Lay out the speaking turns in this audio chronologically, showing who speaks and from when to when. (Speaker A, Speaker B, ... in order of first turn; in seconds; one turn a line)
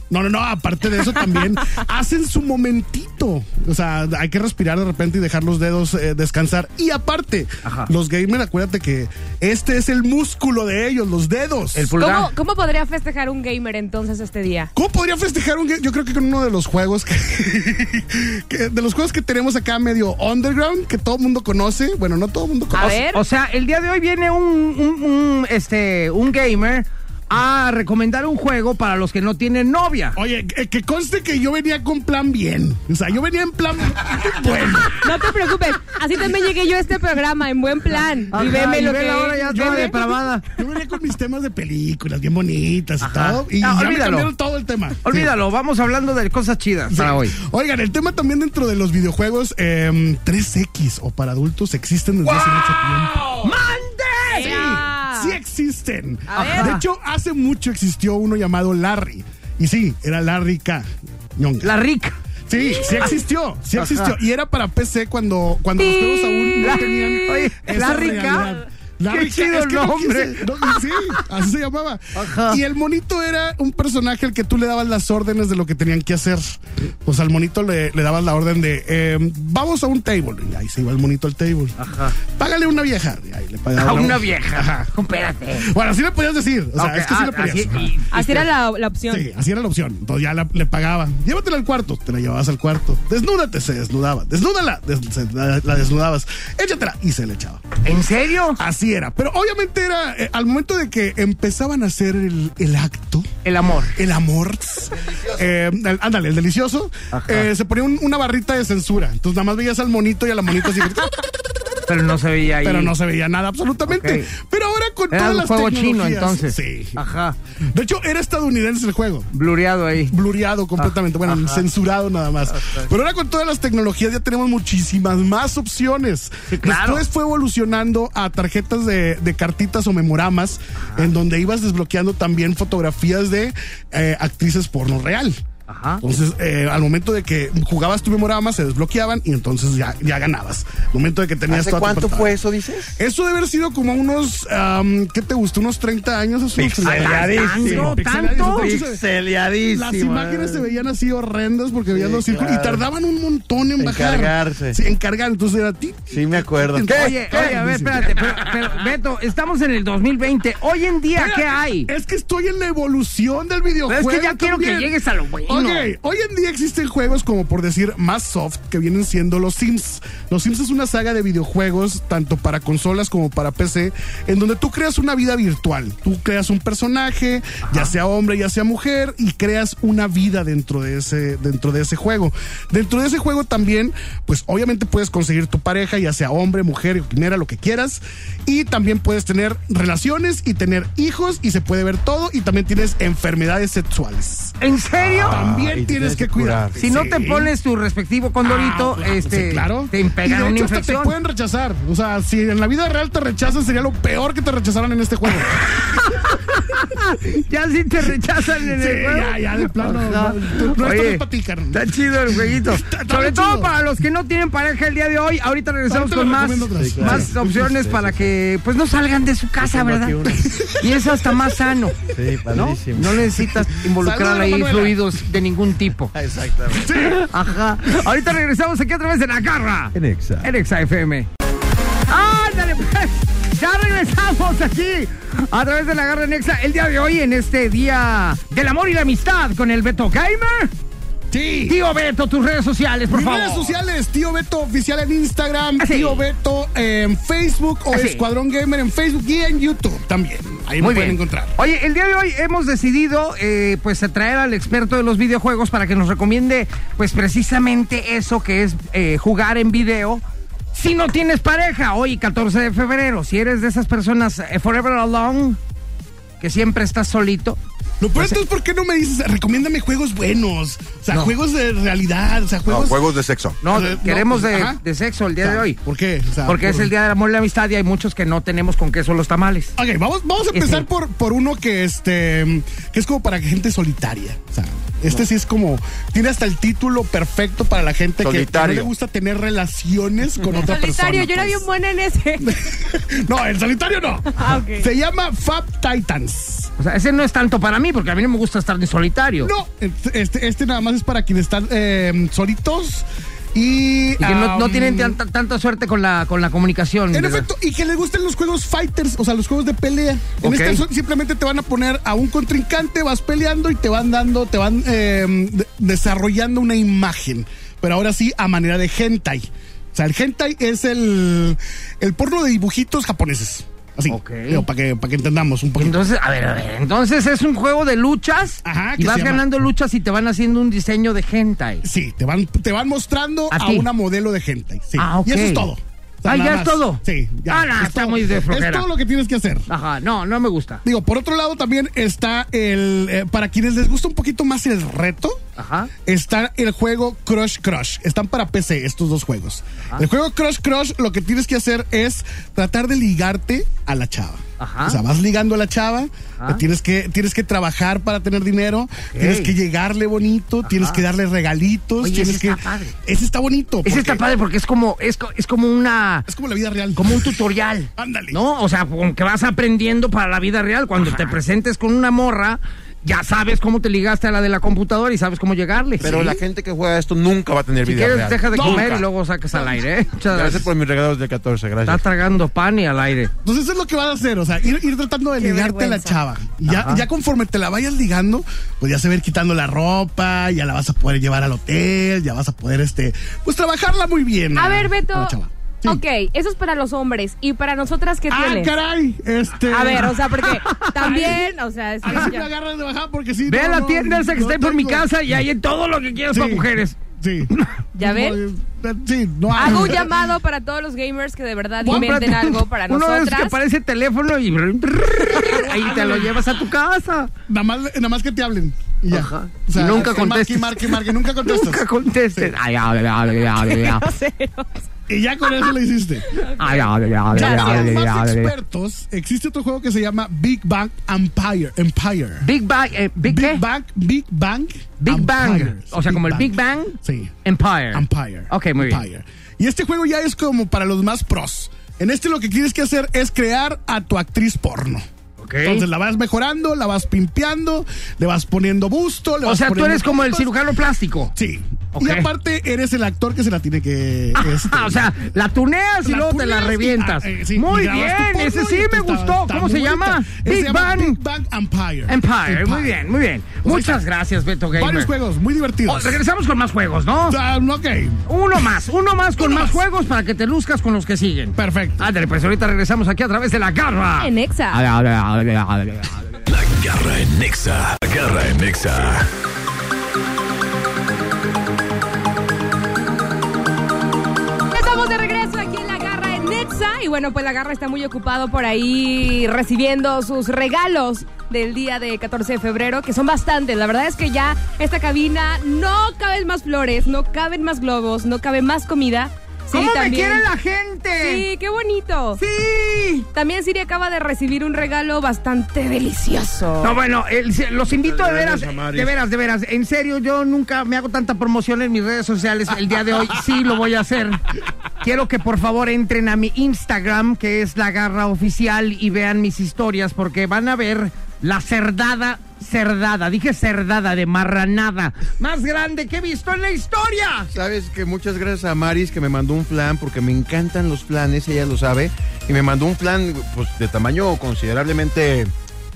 Speaker A: 0.1-11.9
Speaker B: 7.7-7.9
Speaker B: 11.7-12.3
Speaker C: 12.0-14.7
Speaker A: 14.8-23.1
Speaker C: 22.7-23.2
Speaker B: 23.1-30.2
Speaker A: 30.1-35.3
Speaker C: 35.0-39.9
Speaker B: 38.3-40.5
Speaker A: 38.4-38.8
Speaker A: 39.5-45.3
Speaker B: 43.0-44.3
Speaker B: 45.0-47.4
Speaker A: 46.9-53.2
Speaker B: 53.2-54.6
Speaker C: 54.3-55.4
Speaker A: 54.4-61.7
Speaker C: 56.3-56.7
Speaker B: 56.3-56.8
Speaker B: 61.6-62.2
Speaker A: 62.5-81.8
Speaker C: 62.7-63.0
Speaker B: 63.8-64.1
Speaker C: 65.8-68.2
Speaker B: 66.6-68.5
Speaker B: 69.1-71.2
Speaker B: 72.2-72.6
Speaker B: 81.8-82.2
Speaker A: 82.3-84.9
Speaker B: 83.8-85.7
Speaker A: 85.5-88.0
Speaker B: 86.8-88.5
Speaker C: 88.1-89.3
Speaker A: 89.1-97.7
Speaker B: 97.8-98.6
Speaker A: 98.6-103.3
Speaker B: 103.5-104.0
Speaker A: 104.0-111.3
Speaker B: 107.1-107.5
Speaker B: 111.9-112.9
Speaker A: 112.6-117.0
Speaker B: 113.9-114.3
Speaker B: 115.1-117.4
Speaker A: 117.7-119.3
Speaker B: 119.3-120.2
Speaker A: 120.1-135.4
Speaker B: 120.8-121.6
Speaker B: 122.5-122.9
Speaker B: 126.5-127.0
Speaker B: 130.8-131.1
Speaker B: 135.7-136.0
Speaker A: 136.0-142.4
Speaker D: 141.5-143.0
Speaker A: 143.0-149.0
Speaker D: 146.6-150.7
Speaker B: 146.8-148.8
Speaker A: 149.7-158.2
Speaker D: 151.9-152.8
Speaker D: 153.8-154.8
Speaker D: 156.1-157.6
Speaker B: 156.8-161.9
Speaker A: 161.2-164.9
Speaker B: 163.9-165.9
Speaker A: 165.5-194.6
Speaker B: 177.6-177.9
Speaker B: 194.6-195.4
Speaker D: 195.0-196.9
Speaker A: 195.3-197.5
Speaker B: 196.8-201.2
Speaker A: 198.4-205.7
Speaker B: 205.6-222.0
Speaker A: 208.6-213.7
Speaker A: 215.9-217.4
Speaker D: 216.8-218.3
Speaker D: 219.6-220.7
Speaker A: 220.5-220.7
Speaker D: 222.1-223.5
Speaker B: 222.5-226.1
Speaker A: 223.9-225.0
Speaker D: 226.1-227.1
Speaker A: 226.8-227.2
Speaker B: 227.0-231.3
Speaker D: 229.9-230.5
Speaker B: 232.1-240.7
Speaker A: 241.3-241.8
Speaker B: 241.7-243.7
Speaker A: 243.1-251.6
Speaker B: 245.8-246.2
Speaker B: 247.9-248.3
Speaker B: 250.8-265.6
Speaker B: 266.4-267.6
Speaker A: 268.0-273.1
Speaker B: 271.1-271.4
Speaker D: 272.7-273.6
Speaker B: 273.6-275.8
Speaker A: 273.7-274.8
Speaker A: 275.4-276.9
Speaker B: 276.4-279.7
Speaker A: 279.8-291.7
Speaker B: 280.5-280.9
Speaker D: 288.2-288.9
Speaker C: 290.6-292.6
Speaker A: 292.4-296.7
Speaker C: 294.3-294.9
Speaker B: 296.8-299.5
Speaker A: 299.4-305.2
Speaker B: 304.2-307.5
Speaker A: 307.1-326.0
Speaker B: 310.4-310.8
Speaker B: 324.1-324.6
Speaker B: 325.8-331.9
Speaker A: 328.6-329.5
Speaker A: 331.8-339.7
Speaker B: 333.5-333.9
Speaker B: 335.0-335.7
Speaker B: 336.2-338.9
Speaker B: 339.7-340.8
Speaker A: 340.8-345.4
Speaker B: 345.6-345.9
Speaker A: 346.1-364.2
Speaker B: 354.6-355.0
Speaker B: 359.0-359.5
Speaker B: 360.6-361.0
Speaker B: 362.0-363.0
Speaker B: 363.9-366.3
Speaker A: 366.3-367.3
Speaker B: 367.0-376.4
Speaker A: 367.9-368.4
Speaker D: 376.0-379.1
Speaker A: 376.0-376.3
Speaker B: 377.9-380.7
Speaker A: 378.5-379.0
Speaker D: 380.2-382.1
Speaker B: 381.9-383.3
Speaker A: 383.4-396.0
Speaker C: 385.4-386.2
Speaker B: 386.7-387.0
Speaker C: 394.6-395.4
Speaker C: 395.9-398.8
Speaker A: 398.3-401.5
Speaker C: 399.7-402.5
Speaker B: 400.6-401.1
Speaker A: 402.0-405.1
Speaker B: 403.5-407.0
Speaker A: 406.3-410.2
Speaker C: 408.0-408.4
Speaker C: 409.6-413.6
Speaker A: 411.8-412.2
Speaker B: 411.8-417.3
Speaker A: 415.6-416.4
Speaker A: 417.5-422.6
Speaker B: 419.1-424.1
Speaker C: 423.6-424.9
Speaker A: 425.1-426.3
Speaker C: 426.3-427.9
Speaker B: 426.4-428.5
Speaker A: 427.3-432.5
Speaker B: 432.4-433.6
Speaker A: 433.2-437.4
Speaker B: 435.0-439.0
Speaker A: 437.9-445.1
Speaker B: 445.4-445.9
Speaker A: 445.6-450.5
Speaker B: 449.4-451.3
Speaker A: 451.3-455.1
Speaker B: 451.9-452.3
Speaker B: 454.4-461.2
Speaker A: 456.0-463.0
Speaker B: 462.1-465.1
Speaker A: 463.6-464.0
Speaker A: 464.7-466.2
Speaker B: 465.9-467.4
Speaker A: 467.3-468.2
Speaker B: 468.3-476.2
Speaker A: 469.4-469.8
Speaker A: 471.6-472.1
Speaker C: 474.2-474.8
Speaker E: 476.5-479.3
Speaker C: 484.7-500.5
Speaker B: 499.7-501.5
Speaker C: 501.2-502.4
Speaker B: 502.4-503.3
Speaker C: 503.3-507.0
Speaker B: 506.8-514.4
Speaker D: 507.9-509.2
Speaker B: 515.0-527.5
Speaker D: 527.5-535.5